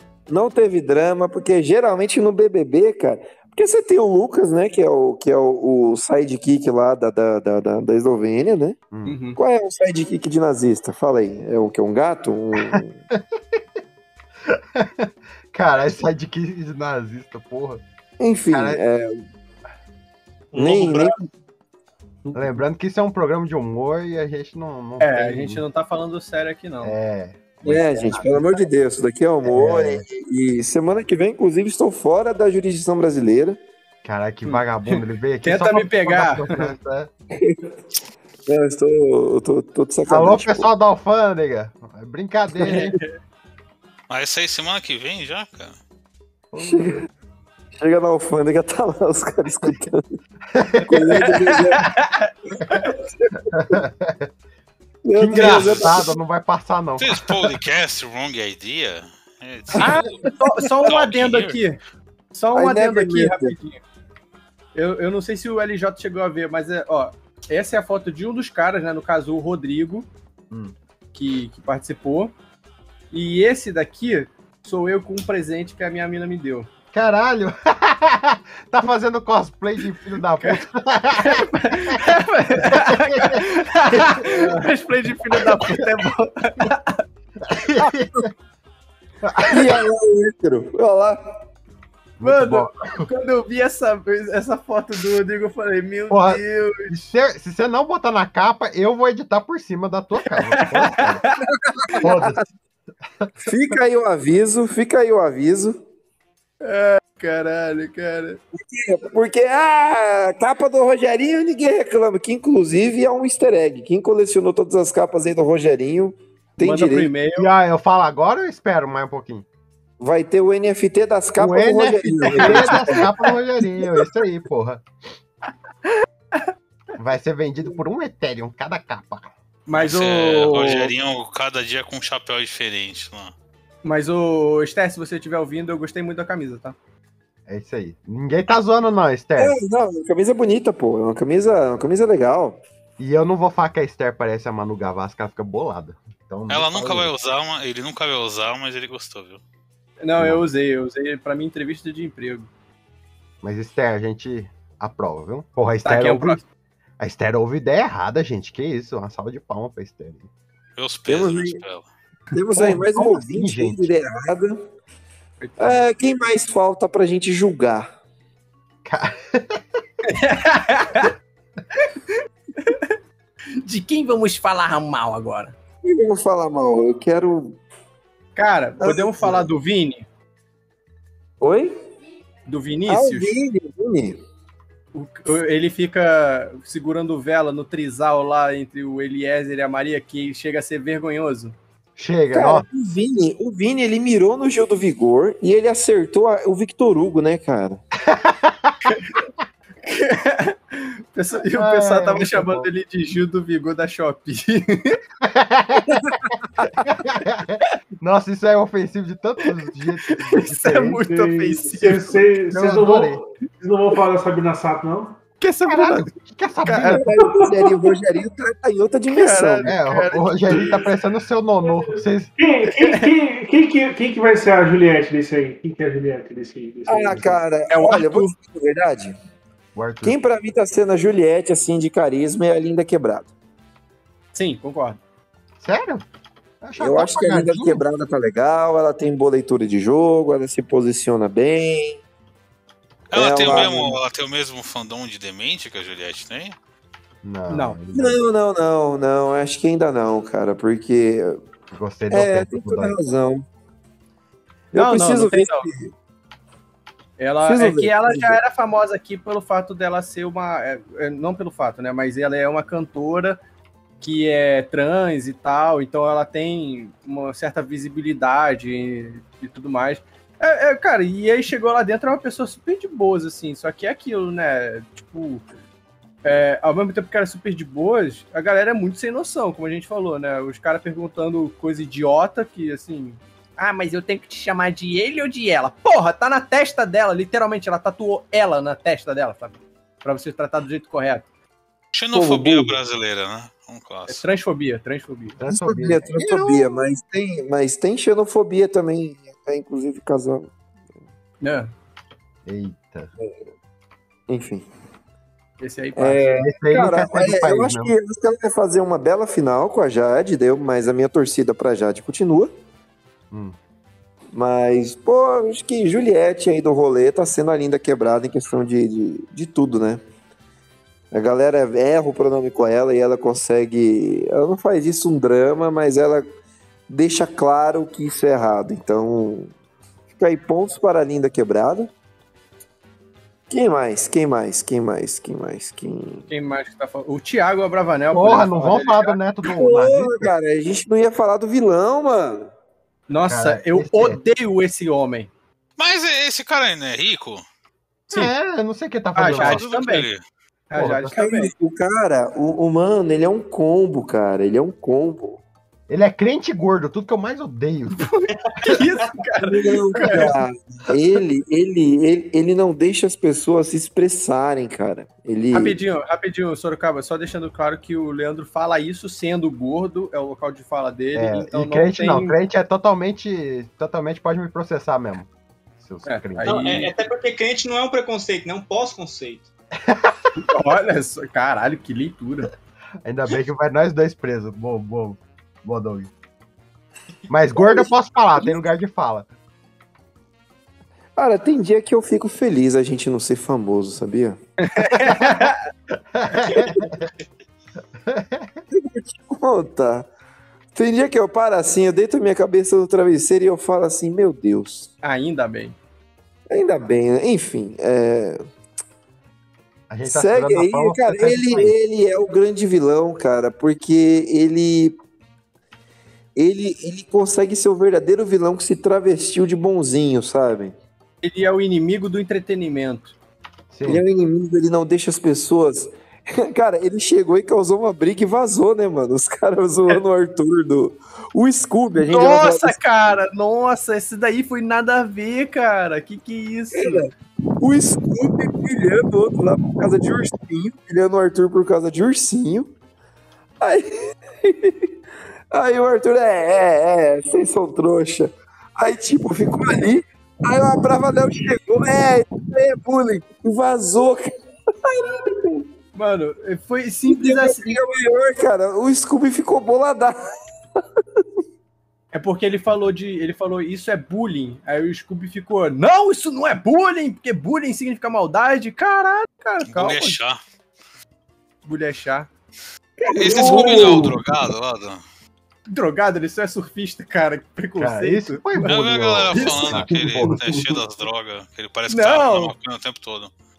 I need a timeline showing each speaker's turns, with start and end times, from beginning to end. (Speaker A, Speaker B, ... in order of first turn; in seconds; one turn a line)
Speaker A: 0.3-8.8
Speaker B: 8.9-9.2
Speaker C: 9.1-9.4
Speaker A: 9.4-13.0
Speaker B: 12.7-13.2
Speaker B: 14.5-17.8
Speaker A: 18.2-19.2
Speaker B: 18.5-18.8
Speaker D: 20.5-21.2
Speaker A: 20.6-21.2
Speaker B: 22.3-25.6
Speaker C: 25.0-27.0
Speaker B: 26.8-28.3
Speaker A: 27.6-33.6
Speaker B: 29.5-30.0
Speaker B: 34.0-37.1
Speaker C: 34.4-36.7
Speaker A: 37.4-37.7
Speaker A: 38.5-40.7
Speaker B: 40.1-43.0
Speaker C: 42.6-43.1
Speaker E: 44.1-45.8
Speaker B: 46.5-47.1
Speaker A: 46.6-47.0
Speaker A: 47.7-50.1
Speaker B: 50.5-50.9
Speaker A: 50.8-51.9
Speaker C: 51.1-52.9
Speaker A: 52.6-53.8
Speaker B: 53.6-54.3
Speaker A: 55.0-56.1
Speaker B: 55.1-57.4
Speaker E: 55.4-56.0
Speaker E: 57.0-60.2
Speaker C: 59.8-61.8
Speaker A: 60.3-60.7
Speaker E: 60.9-61.6
Speaker C: 62.3-63.8
Speaker A: 62.5-63.6
Speaker C: 64.7-70.1
Speaker C: 71.1-72.3
Speaker C: 73.1-76.7
Speaker B: 76.9-82.0
Speaker C: 81.2-87.0
Speaker B: 82.6-84.6
Speaker B: 85.3-85.7
Speaker B: 87.4-88.3
Speaker B: 89.2-89.8
Speaker A: 89.5-91.4
Speaker B: 92.2-93.1
Speaker C: 92.2-97.1
Speaker B: 96.1-101.2
Speaker C: 100.5-101.3
Speaker B: 101.9-102.5
Speaker A: 101.9-102.4
Speaker A: 103.4-105.8
Speaker C: 106.6-108.4
Speaker A: 108.5-117.1
Speaker C: 116.6-117.5
Speaker B: 117.3-119.4
Speaker A: 120.0-123.1
Speaker B: 121.4-124.8
Speaker C: 122.3-122.9
Speaker B: 127.0-129.3
Speaker C: 129.7-130.9
Speaker E: 129.7-133.3
Speaker C: 133.8-136.8
Speaker B: 137.5-139.6
Speaker A: 139.4-142.6
Speaker B: 143.0-147.1
Speaker E: 146.5-149.4
Speaker C: 150.0-152.5
Speaker B: 150.2-150.4
Speaker B: 153.4-156.4
Speaker C: 155.8-156.4
Speaker B: 157.0-160.3
Speaker E: 160.8-161.9
Speaker A: 161.1-161.6
Speaker A: 162.3-164.6
Speaker B: 162.6-163.9
Speaker C: 165.4-165.8
Speaker A: 165.6-167.9
Speaker B: 168.8-169.6
Speaker C: 170.1-171.1
Speaker C: 171.8-172.9
Speaker C: 173.6-175.6
Speaker A: 175.8-177.6
Speaker C: 178.4-180.1
Speaker A: 178.8-179.4
Speaker A: 181.4-181.8
Speaker C: 182.5-183.3
Speaker A: 182.9-184.2
Speaker C: 184.9-191.6
Speaker B: 192.0-192.6
Speaker A: 192.3-197.8
Speaker B: 198.1-198.8
Speaker C: 199.8-205.0
Speaker B: 201.4-202.7
Speaker B: 205.2-205.9
Speaker A: 205.9-206.6
Speaker B: 206.8-211.0
Speaker C: 210.1-212.3
Speaker F: 211.0-215.2
Speaker B: 212.5-213.2
Speaker C: 215.4-216.1
Speaker B: 215.7-217.1
Speaker C: 216.6-217.5
Speaker A: 216.9-219.7
Speaker C: 219.1-220.8
Speaker B: 219.7-222.3
Speaker F: 221.6-227.4
Speaker C: 222.7-223.1
Speaker A: 226.9-229.1
Speaker C: 227.7-228.3
Speaker B: 229.7-230.2
Speaker A: 230.0-233.3
Speaker C: 234.3-235.0
Speaker B: 235.6-236.1
Speaker B: 236.6-237.8
Speaker A: 236.8-242.0
Speaker A: 243.1-244.0
Speaker E: 243.1-246.6
Speaker B: 247.2-248.2
Speaker C: 247.5-247.8
Speaker A: 247.9-251.4
Speaker B: 251.7-253.0
Speaker A: 252.1-253.4
Speaker A: 254.7-255.9
Speaker C: 254.7-255.7
Speaker C: 257.2-263.4
Speaker A: 257.4-258.4
Speaker C: 264.0-275.4
Speaker C: 276.2-291.2
Speaker E: 291.9-294.2
Speaker A: 292.1-292.8
Speaker C: 294.1-295.4
Speaker B: 295.4-296.7
Speaker A: 295.4-300.5
Speaker C: 301.4-301.7
Speaker B: 302.4-303.1
Speaker A: 304.3-304.6
Speaker C: 305.6-306.2
Speaker A: 305.9-312.5
Speaker B: 306.4-307.9
Speaker B: 313.3-313.6
Speaker A: 314.3-320.0
Speaker A: 321.1-326.2
Speaker A: 326.9-329.5
Speaker A: 330.1-331.9
Speaker A: 333.5-336.3
Speaker C: 336.3-339.2
Speaker B: 338.1-340.3
Speaker A: 339.4-342.5
Speaker C: 343.1-345.3
Speaker B: 343.3-344.2
Speaker E: 345.8-347.4
Speaker B: 348.1-349.6
Speaker C: 349.1-350.1
Speaker E: 349.2-350.2
Speaker C: 350.7-351.5
Speaker B: 350.8-351.1
Speaker A: 351.1-355.4
Speaker B: 355.9-358.0
Speaker C: 358.0-360.4
Speaker D: 358.6-359.1
Speaker A: 359.4-365.8
Speaker C: 365.5-372.4
Speaker B: 371.1-376.9
Speaker C: 376.1-376.9
Speaker D: 376.4-379.5
Speaker B: 379.9-380.2
Speaker C: 380.4-382.5
Speaker B: 383.0-386.1
Speaker B: 387.3-389.3
Speaker A: 387.6-387.9
Speaker A: 391.1-394.4
Speaker C: 394.6-395.6
Speaker B: 396.0-397.0
Speaker D: 396.5-396.9
Speaker B: 398.1-398.6
Speaker A: 398.7-400.1
Speaker A: 400.7-404.9
Speaker C: 405.0-405.8
Speaker A: 406.5-408.4
Speaker B: 409.9-411.7
Speaker A: 410.1-415.0
Speaker A: 416.4-420.7
Speaker C: 421.2-423.1
Speaker B: 423.7-424.0
Speaker A: 423.8-432.8
Speaker C: 432.1-437.1
Speaker A: 436.7-442.7
Speaker A: 443.6-444.9
Speaker A: 445.5-454.3
Speaker A: 454.8-455.6
Speaker C: 455.9-457.8
Speaker A: 457.1-460.3
Speaker C: 462.1-470.2
Speaker E: 469.7-470.4
Speaker C: 471.6-472.3
Speaker F: 473.1-474.1
Speaker A: 473.1-474.0
Speaker E: 473.1-475.0
Speaker C: 473.2-474.0
Speaker C: 475.7-478.4
Speaker B: 477.8-480.4
Speaker E: 478.6-483.3
Speaker F: 480.2-480.8
Speaker C: 481.9-482.5